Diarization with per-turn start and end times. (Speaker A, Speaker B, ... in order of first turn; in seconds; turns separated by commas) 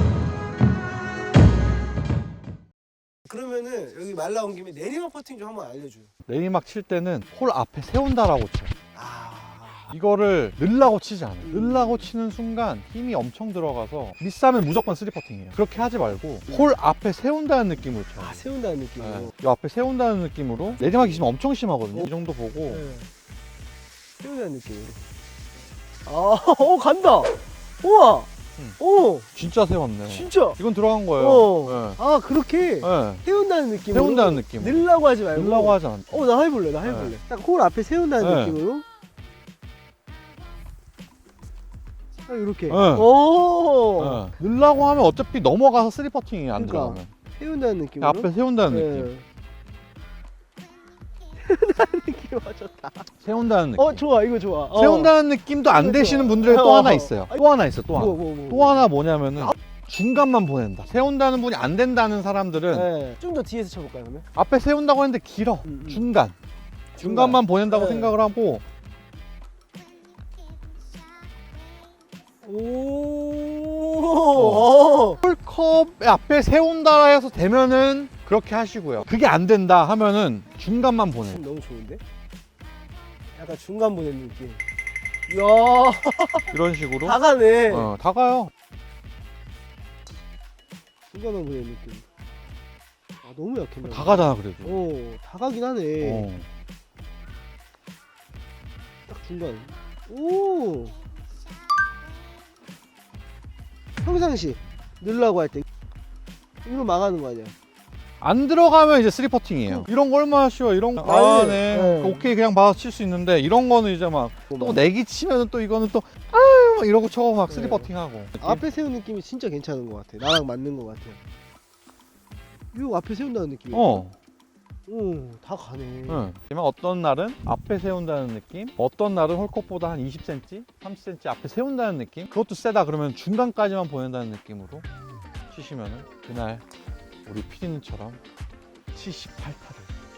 Speaker A: 3.3-6.1, Speaker B: 6.3-8.7, Speaker A: 8.9-9.9, Speaker B: 9.9-18.4, Speaker A: 11.4-12.1, Speaker A: 18.2-19.3, Speaker B: 19.0-22.8, Speaker A: 20.6-21.3, Speaker A: 22.7-23.1, Speaker A: 24.2-25.0, Speaker A: 26.1-28.3, Speaker A: 28.8-29.3, Speaker B: 29.4-32.0, Speaker A: 30.1-30.6, Speaker A: 31.2-38.8, Speaker B: 32.8-33.2, Speaker B: 33.9-36.2, Speaker B: 36.8-37.1, Speaker B: 38.2-38.6, Speaker A: 42.3-44.3, Speaker B: 42.7-43.1, Speaker B: 44.0-47.1, Speaker A: 46.5-49.2, Speaker B: 48.0-49.1, Speaker A: 51.4-53.1, Speaker B: 53.2-54.0, Speaker A: 53.8-55.1, Speaker B: 54.7-62.9, Speaker A: 55.7-58.9, Speaker A: 62.7-64.3, Speaker B: 64.3-66.3, Speaker A: 65.7-66.1, Speaker A: 66.9-68.2, Speaker B: 67.0-68.6, Speaker A: 72.4-75.2, Speaker B: 74.3-81.4, Speaker A: 81.2-82.0, Speaker A: 83.4-84.6, Speaker A: 85.3-87.9, Speaker B: 86.5-87.2, Speaker B: 87.7-88.5, Speaker A: 91.1-92.0, Speaker A: 93.2-96.3, Speaker B: 93.8-94.8, Speaker B: 96.0-96.5, Speaker A: 99.1-101.0, Speaker A: 104.0-105.7, Speaker A: 106.7-107.5, Speaker B: 108.2-118.6, Speaker A: 111.0-112.3, Speaker A: 114.5-114.8, Speaker A: 117.5-121.2, Speaker A: 122.7-124.0, Speaker B: 123.7-124.2, Speaker A: 124.9-126.3, Speaker B: 126.1-134.8, Speaker B: 135.5-136.6, Speaker B: 137.3-138.2, Speaker B: 138.9-139.9